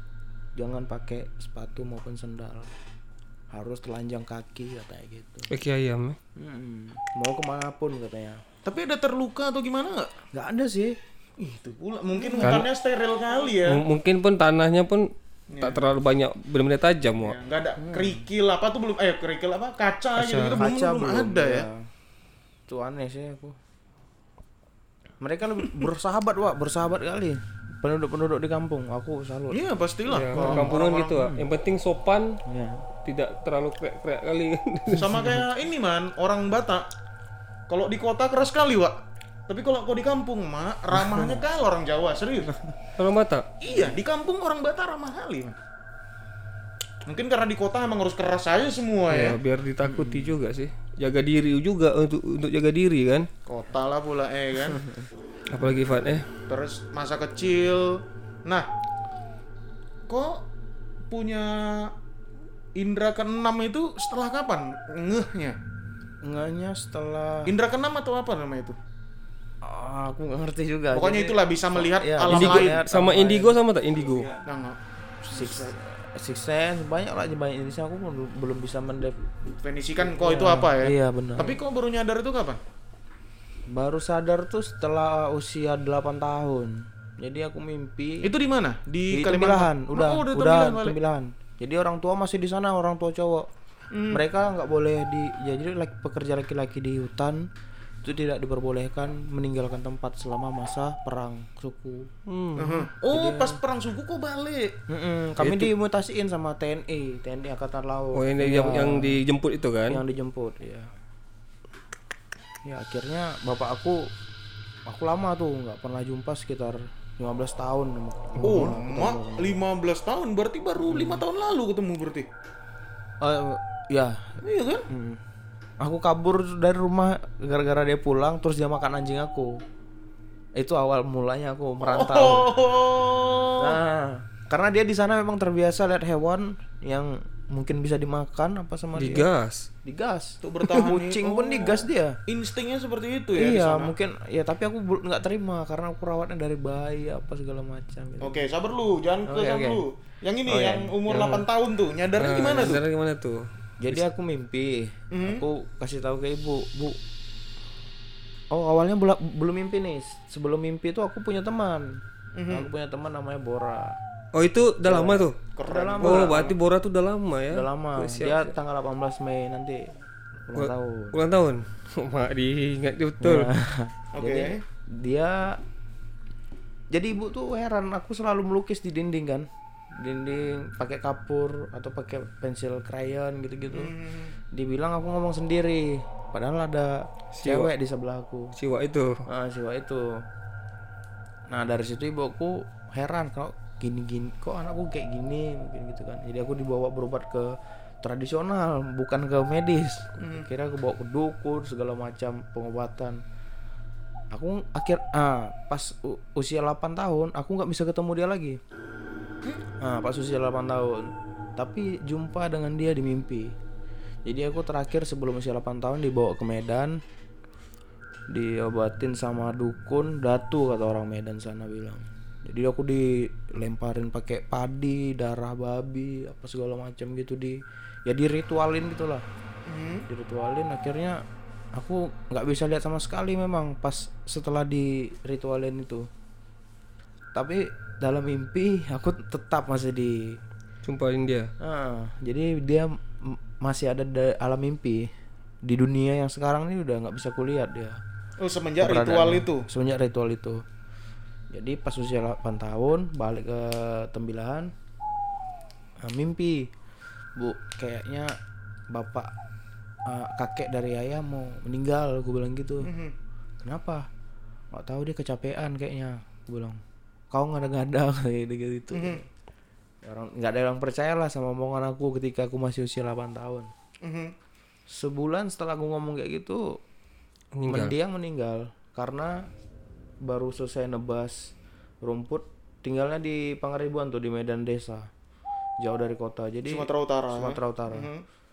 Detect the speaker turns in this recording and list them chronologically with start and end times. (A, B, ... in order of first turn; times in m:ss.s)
0:00.6-0:02.7 A
0:03.5-0:05.5 A
0:05.5-0:06.2 B
0:06.4-0:08.4 A
0:08.6-0:10.1 C
0:10.3-0:11.0 A
0:11.4-0:13.8 C
0:12.3-0:12.6 A
0:12.4-0:12.7 B
0:13.6-0:17.4 B
0:15.5-0:15.8 C
0:17.2-0:21.7 C
0:17.8-0:18.2 A
0:20.2-0:20.6 B
0:20.6-0:21.9 A
0:22.7-0:23.6 A
0:25.2-0:29.6 A
0:29.5-0:31.2 C
0:30.1-0:32.4 B
0:30.4-0:31.4 A
0:32.5-0:32.8 A
0:33.0-0:35.2 B
0:34.9-0:36.9 C
0:37.7-0:42.5 C
0:41.1-0:41.4 A
0:43.0-0:43.5 B
0:43.6-0:45.6 C
0:47.1-0:49.4 C
0:49.1-0:53.3 B
0:49.8-0:50.4 A
0:53.5-0:54.8 C
0:54.7-0:55.1 A
0:55.5-0:56.3 B
0:56.5-0:58.7 C
1:00.1-1:00.4 C
1:01.1-1:01.9 C
1:02.8-1:05.6 C
1:06.2-1:07.5 A
1:07.5-1:08.8 C
1:09.6-1:13.5 A
1:10.9-1:12.8 C
1:12.3-1:14.3 B
1:14.4-1:15.8 C
1:15.3-1:19.2 A
1:19.6-1:22.6 C
1:20.0-1:21.6 A
1:23.7-1:28.3 A
1:28.2-1:31.0 C
1:29.1-1:33.5 A
1:33.9-1:34.2 C
1:34.1-1:37.5 A
1:38.0-1:42.1 A
1:42.3-1:42.9 B
1:42.6-1:44.8 C
1:43.1-1:43.6 A
1:44.9-1:49.2 A
1:45.4-1:45.7 B
1:48.1-1:50.0 B
1:49.9-1:50.9 A
1:52.6-1:54.1 A
1:54.9-1:59.6 A
1:58.4-2:02.3 C
1:58.4-1:58.7 B
2:00.9-2:01.2 A
2:03.2-2:05.2 A
2:04.4-2:04.8 C
2:05.8-2:09.6 A
2:10.6-2:12.5 A
2:11.8-2:13.8 C
2:13.6-2:19.3 A
2:19.0-2:19.7 B
2:19.8-2:22.2 A
2:20.4-2:23.9 C
2:23.4-2:28.4 A
2:28.2-2:32.8 C
2:29.3-2:29.8 A
2:30.5-2:30.9 A
2:31.1-2:31.4 B
2:32.2-2:34.0 B
2:33.8-2:37.0 A
2:35.1-2:35.4 C
2:38.5-2:44.0 A
2:42.4-2:42.7 C
2:44.3-2:45.4 B
2:44.8-2:46.5 A
2:45.6-2:46.5 C
2:46.0-2:48.5 B
2:47.5-2:51.2 A
2:50.6-2:53.5 B
2:53.2-2:55.6 A
2:54.2-2:54.6 C
2:56.9-3:03.9 A
3:03.7-3:04.3 C
3:04.5-3:08.5 A
3:07.3-3:07.7 B
3:08.6-3:09.3 B
3:09.3-3:10.2 A
3:11.5-3:23.2 A
3:20.2-3:20.5 C
3:24.3-3:28.6 A
3:29.8-3:33.5 A
3:34.2-3:37.0 A
3:38.3-3:49.2 A
3:49.7-3:50.0 C
3:50.1-3:51.2 A
3:51.8-3:56.1 A
3:57.4-4:00.4 A
4:00.8-4:01.5 B
4:01.6-4:05.1 A
4:05.6-4:08.0 A
4:08.4-4:09.6 C
4:08.8-4:10.6 A
4:11.5-4:14.7 A
4:16.0-4:16.7 A
4:17.4-4:18.3 A
4:18.9-4:19.3 A
4:20.1-4:22.9 A
4:22.8-4:23.1 C
4:23.6-4:24.1 A
4:24.7-4:26.8 A
4:27.3-4:29.3 A
4:28.9-4:29.2 C
4:30.0-4:33.7 A
4:34.0-4:34.3 C
4:34.9-4:36.8 A
4:37.5-4:37.9 B
4:37.7-4:39.5 A
4:40.2-4:45.1 A
4:45.8-4:48.1 A
4:46.7-4:48.2 C